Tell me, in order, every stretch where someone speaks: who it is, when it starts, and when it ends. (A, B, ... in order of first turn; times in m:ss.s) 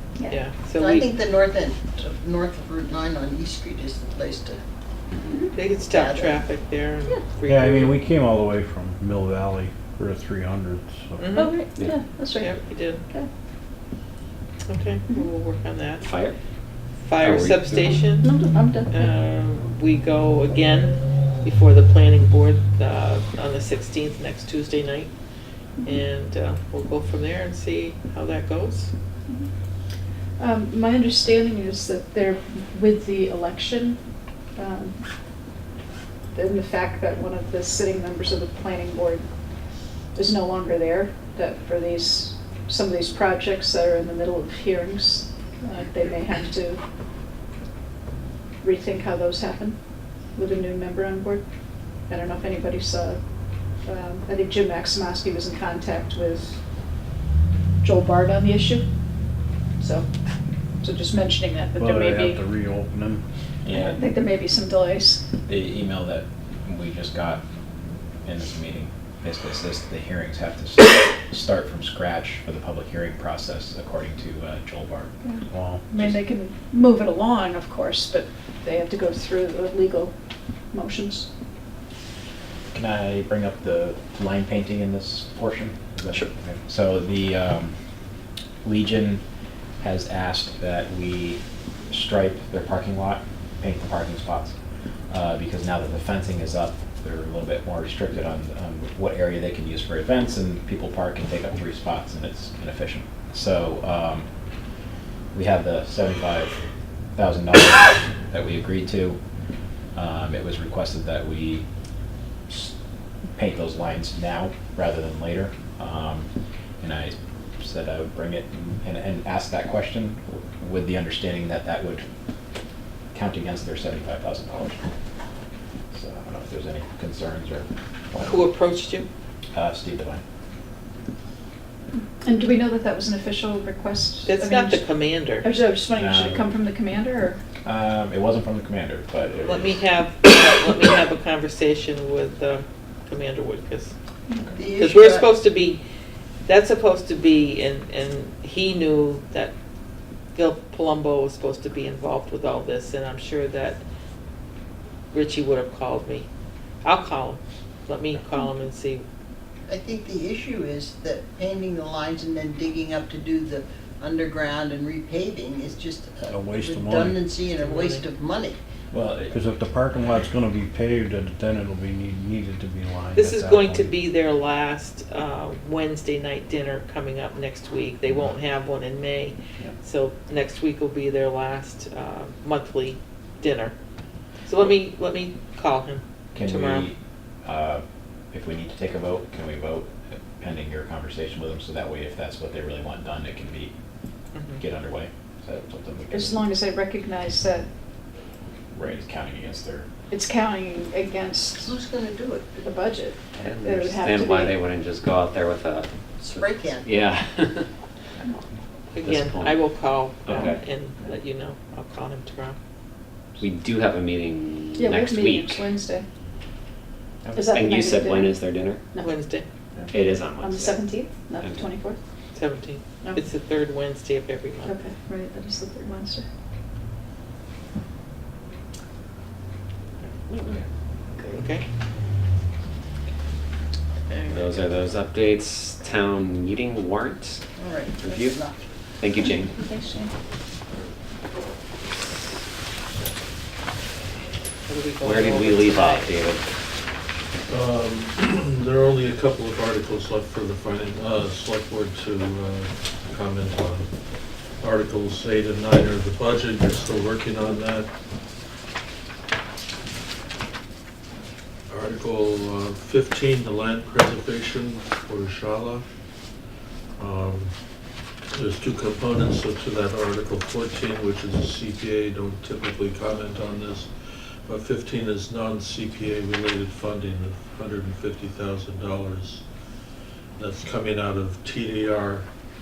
0:00.3-0:01.1 A
0:00.8-0:04.6 B
0:05.2-0:05.5 C
0:05.5-0:08.0 A
0:05.9-0:06.4 B
0:07.4-0:11.4 D
0:11.2-0:11.6 A
0:11.3-0:13.3 C
0:11.7-0:12.0 E
0:12.4-0:13.0 A
0:14.7-0:16.1 A
0:16.0-0:16.4 E
0:17.0-0:18.3 A
0:17.2-0:18.0 E
0:18.2-0:19.2 C
0:18.9-0:25.1 A
0:25.8-0:28.9 A
0:30.4-0:34.0 C
0:34.6-0:35.0 C
0:36.3-0:39.3 C
0:40.2-0:46.8 C
0:48.6-0:49.8 C
0:50.3-0:51.4 C
0:52.1-0:53.2 C
0:53.8-0:56.6 C
0:57.8-0:58.8 C
0:59.8-1:00.0 C
1:00.8-1:02.4 C
1:01.8-1:03.2 D
1:03.6-1:04.1 F
1:03.7-1:05.2 C
1:05.5-1:07.4 F
1:08.2-1:15.1 F
1:15.2-1:20.1 C
1:15.5-1:15.8 D
1:20.7-1:21.3 C
1:22.7-1:27.8 F
1:28.6-1:29.2 F
1:29.8-1:34.5 F
1:35.1-1:44.3 F
1:45.3-1:46.5 F
1:47.2-1:49.2 F
1:49.9-1:51.6 F
1:52.5-1:52.7 F
1:53.4-1:56.3 F
1:56.8-2:02.0 F
2:03.1-2:04.8 F
2:05.9-2:08.4 F
2:08.2-2:09.1 A
2:09.5-2:10.2 F
2:12.2-2:14.9 C
2:14.3-2:15.5 A
2:15.4-2:17.4 C
2:15.9-2:16.6 F
2:17.6-2:19.8 F
2:19.4-2:23.9 A
2:24.5-2:25.3 B
2:24.8-2:25.8 A
2:26.5-2:29.5 A
2:30.3-2:33.8 A
2:35.1-2:36.3 A
2:36.8-2:39.0 A
2:39.7-2:48.6 B
2:46.2-2:47.2 D
2:47.6-2:48.0 A
2:48.9-2:49.4 F
2:49.3-2:53.9 D
2:53.2-3:03.7 A
3:04.5-3:06.9 A
3:06.3-3:13.7 F
3:14.3-3:14.6 A
3:14.6-3:16.4 F
3:16.1-3:17.7 C
3:18.7-3:19.9 F
3:20.1-3:21.8 C
3:21.6-3:22.6 B
3:22.6-3:24.6 C
3:23.4-3:27.6 E
3:26.2-3:26.9 B
3:28.9-3:32.6 A
3:29.0-3:30.6 E
3:33.4-3:35.6 E
3:34.8-3:36.0 C
3:37.3-3:39.1 C
3:37.4-3:38.8 E
3:39.0-3:39.5 A
3:39.9-3:40.8 E
3:39.9-3:42.0 C
3:42.3-3:44.8 A
3:44.6-3:46.2 C
3:51.2-3:51.6 A
3:54.1-3:54.6 A
3:54.3-3:57.4 E
3:57.6-3:58.6 B
3:58.0-3:58.4 E
3:59.0-3:59.6 E
3:59.2-4:00.1 C
4:04.7-4:06.1 A
4:05.0-4:06.4 E
4:07.5-4:13.9 G
4:14.6-4:17.9 G
4:21.7-4:25.8 G
4:27.0-4:27.5 G
4:28.3-4:39.4 G
4:40.4-4:42.2 G